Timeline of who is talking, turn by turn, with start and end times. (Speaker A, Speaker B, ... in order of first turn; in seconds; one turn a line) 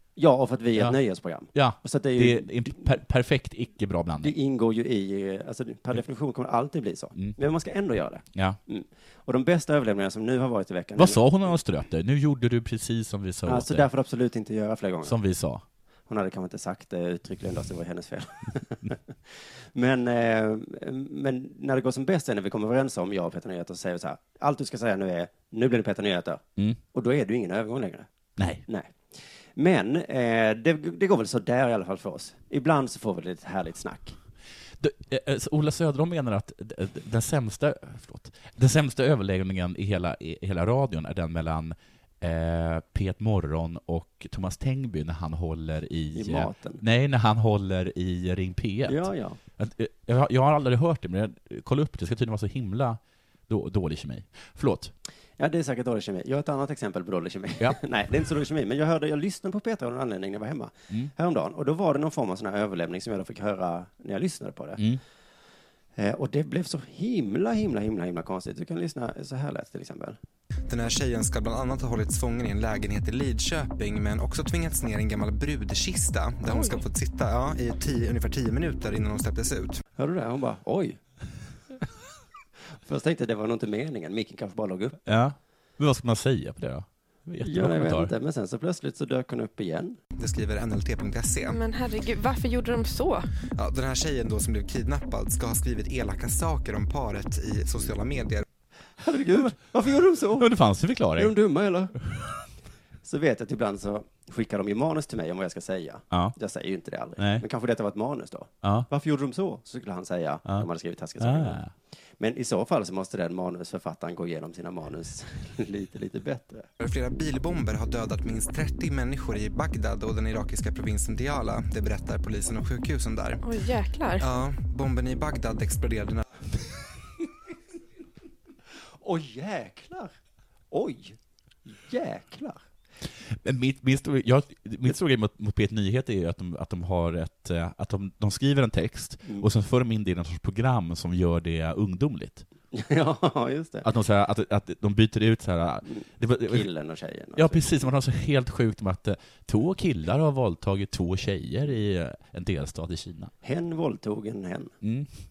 Speaker A: 0.2-3.0
Speaker B: 1.5-4.3
Speaker A: 4.2-11.5
Speaker B: 11.0-13.9
Speaker A: 13.4-15.2
Speaker B: 15.0-15.6
Speaker A: 16.1-28.1
Speaker B: 28.4-28.6
Speaker A: 28.6-34.2
Speaker B: 34.8-49.1
Speaker A: 46.1-46.8
Speaker A: 48.9-49.4
Speaker B: 49.6-54.9
Speaker A: 55.4-64.9
Speaker A: 66.0-70.2
Speaker C: 70.7-79.8
Speaker D: 76.5-76.8
Speaker A: 80.0-81.0
Speaker A: 82.8-85.0
Speaker B: 85.1-88.1
Speaker A: 87.4-90.0
Speaker C: 90.2-91.6
Speaker D: 91.5-93.3
Speaker C: 93.5-98.5
Speaker A: 99.0-100.5
Speaker B: 100.3-101.3
Speaker A: 101.2-102.0
Speaker B: 102.0-102.4
Speaker A: 103.0-111.6
Speaker B: 106.1-106.4
Speaker B: 107.2-107.4
Speaker B: 108.6-108.9
Speaker B: 111.2-111.7
Speaker A: 112.2-116.7
Speaker C: 116.8-123.5
Speaker D: 123.4-124.3
Speaker C: 124.2-126.2
Speaker A: 129.0-130.2
Speaker A: 130.7-132.6
Speaker B: 133.3-142.4
Speaker A: 142.7-143.9
Speaker B: 143.8-146.7
Speaker A: 145.9-147.9
Speaker B: 147.4-153.3
Speaker A: 153.4-154.8
Speaker B: 154.8-155.1